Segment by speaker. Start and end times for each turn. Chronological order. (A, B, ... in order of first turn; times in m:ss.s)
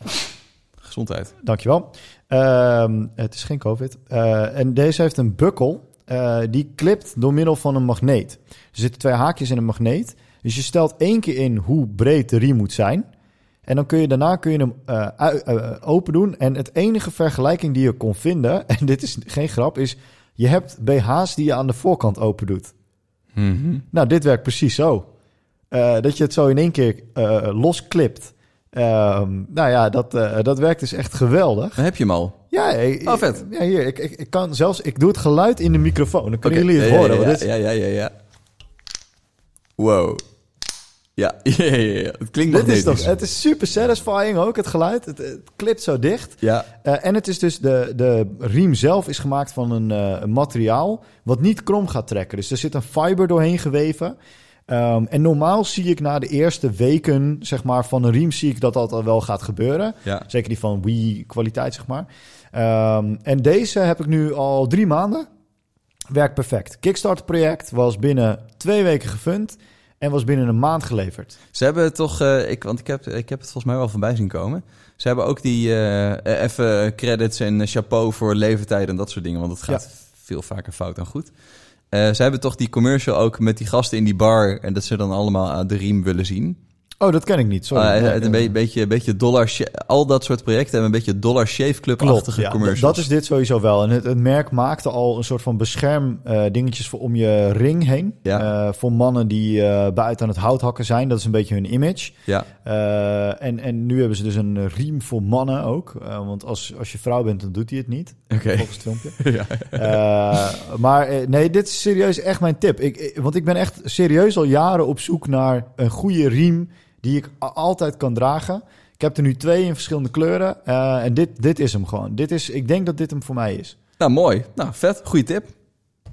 0:00.8-0:01.3 A
0:01.4-0:13.1 B
0:13.7-0:22.7 B
0:23.4-0:23.8 A
0:23.9-0:25.1 B
0:25.7-0:31.8 B
0:31.8-0:32.4 A
0:32.5-0:37.5 B
0:33.0-0:33.4 A
0:36.4-0:38.1 A
0:39.8-0:40.2 A
0:41.2-0:43.1 A
0:42.5-0:54.2 B
0:46.4-0:46.7 A
0:54.7-1:05.3 B
1:06.1-1:11.4 B
1:11.5-1:21.3 A
1:21.9-1:26.6 A
1:27.0-1:28.6 B
1:27.7-1:33.1 A
1:32.0-1:49.2 B
1:48.3-1:50.0 A
1:49.8-2:03.8 B
2:04.0-2:05.5 A